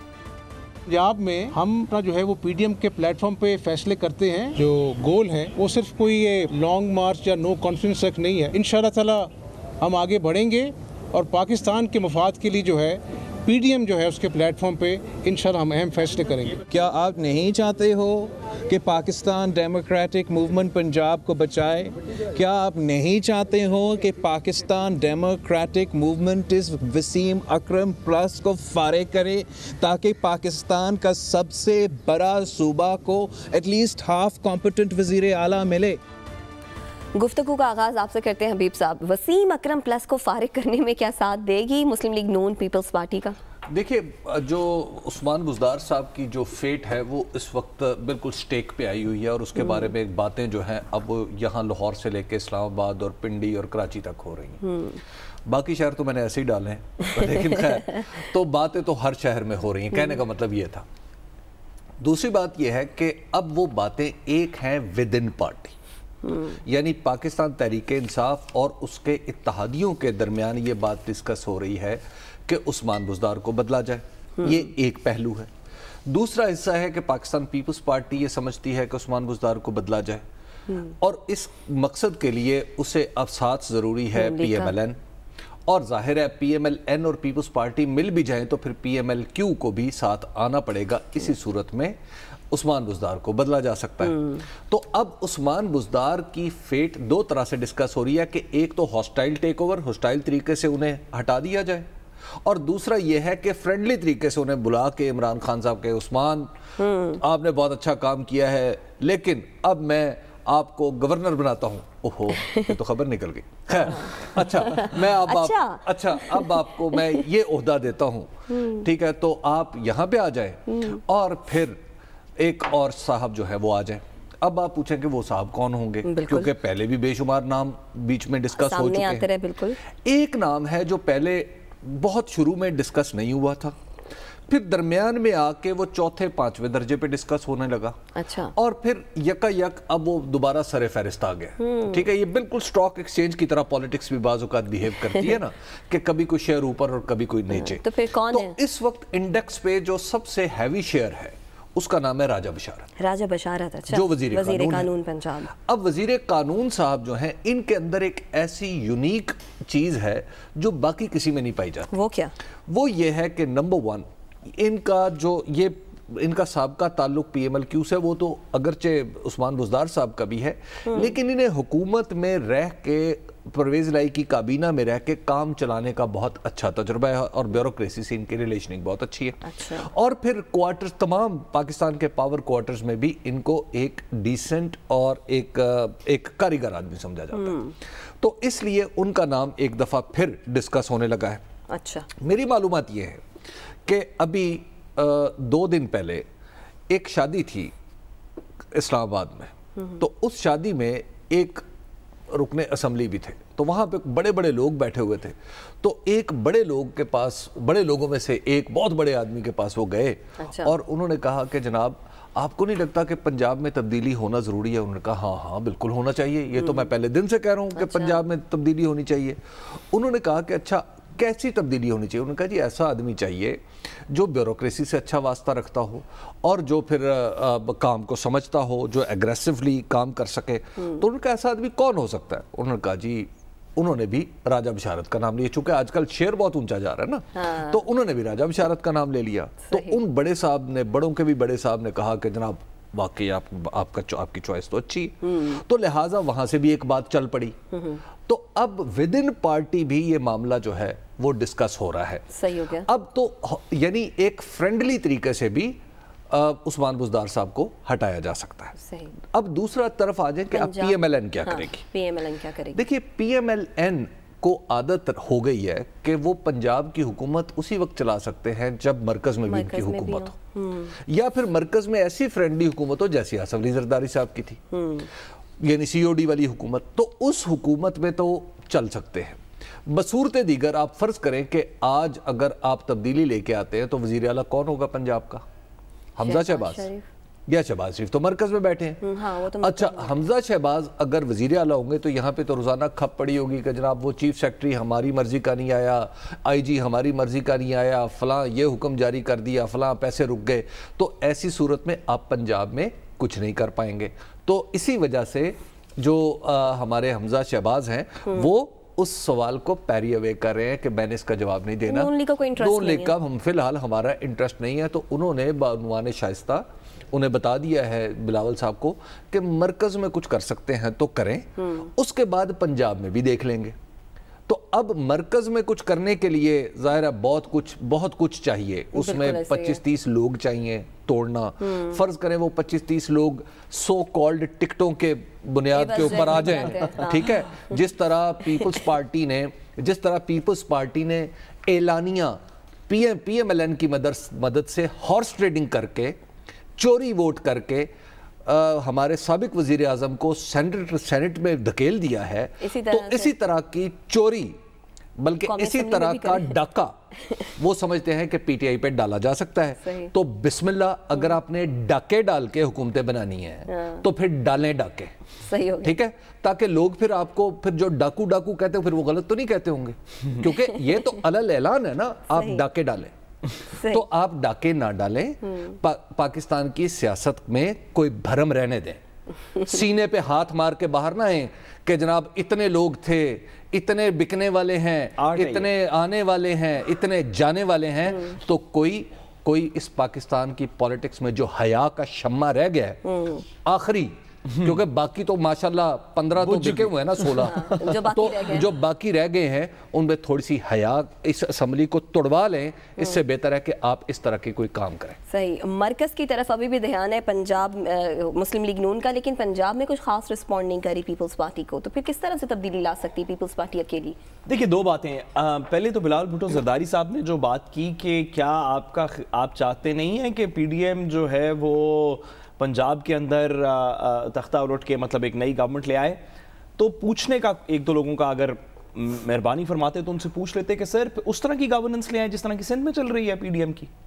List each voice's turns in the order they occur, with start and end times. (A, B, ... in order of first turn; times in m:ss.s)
0:00.9-0:16.6 A
0:16.7-0:36.0 B
0:37.2-0:43.4 C
0:43.7-0:54.6 D
0:54.6-0:55.0 C
0:55.5-1:00.9 D
1:02.0-1:05.8 D
1:06.2-1:06.6 C
1:06.6-1:15.5 D
1:16.1-1:20.2 D
1:21.0-1:25.0 D
1:24.2-1:24.7 C
1:25.7-1:32.0 D
1:32.5-1:41.9 D
1:34.1-1:34.4 C
1:42.4-1:46.5 D
1:46.8-1:47.2 C
1:47.2-2:01.8 D
1:52.4-1:52.7 C
1:53.7-1:57.2 C
1:58.5-1:58.9 C
2:00.7-2:01.0 C
2:02.4-2:09.3 D
2:06.0-2:06.5 C
2:08.6-2:09.8 C
2:10.0-2:13.8 D
2:14.5-2:18.0 D
2:18.2-2:18.5 C
2:18.6-2:32.9 D
2:21.6-2:22.1 C
2:27.5-2:28.6 C
2:33.0-2:35.5 C
2:33.9-2:34.9 D
2:35.5-2:41.9 D
2:41.9-2:42.3 C
2:42.7-3:07.6 D
2:50.9-2:51.1 C
2:59.4-2:59.9 C
3:07.3-3:07.7 C
3:08.2-3:11.4 D
3:11.7-3:12.1 C
3:12.2-3:13.2 D
3:13.9-3:16.3 D
3:16.9-3:17.7 D
3:18.7-3:21.6 D
3:19.8-3:20.0 C
3:22.3-4:07.6 D
3:30.4-3:30.7 C
3:37.8-3:38.2 C
3:50.8-3:51.0 C
3:57.4-3:57.8 C
3:59.7-4:00.0 C
4:05.2-4:05.6 C
4:07.7-4:08.0 C
4:08.3-4:12.3 D
4:12.3-4:12.9 C
4:12.8-4:21.8 D
4:18.8-4:19.1 C
4:20.5-4:22.8 C
4:22.7-4:30.3 D
4:29.5-4:31.0 C
4:31.0-4:34.6 D
4:34.7-4:35.1 C
4:35.6-4:45.4 D
4:46.2-4:46.9 D
4:46.2-4:47.0 C
4:47.5-4:49.0 D
4:49.0-4:50.2 C
4:49.6-5:23.8 D
5:11.9-5:13.1 C
5:21.6-5:21.9 C
5:24.5-5:46.2 D
5:29.0-5:29.8 C
5:31.7-5:32.0 C
5:35.7-5:37.6 C
5:46.8-5:47.9 D
5:48.4-5:54.6 D
5:52.6-5:53.3 C
5:55.2-5:57.0 D
5:55.5-5:56.6 C
5:57.6-6:05.1 D
5:59.8-6:00.1 C
6:03.7-6:04.0 C
6:05.4-6:06.0 C
6:05.8-6:13.1 D
6:12.3-6:12.6 C
6:13.7-6:14.0 C
6:13.7-6:19.0 D
6:15.5-6:15.8 C
6:19.6-6:45.2 D
6:25.2-6:25.7 E
6:33.0-6:33.4 C
6:36.5-6:36.8 E
6:37.5-6:38.7 C
6:45.3-6:54.2 C
6:54.5-7:06.2 E
7:06.8-7:13.9 E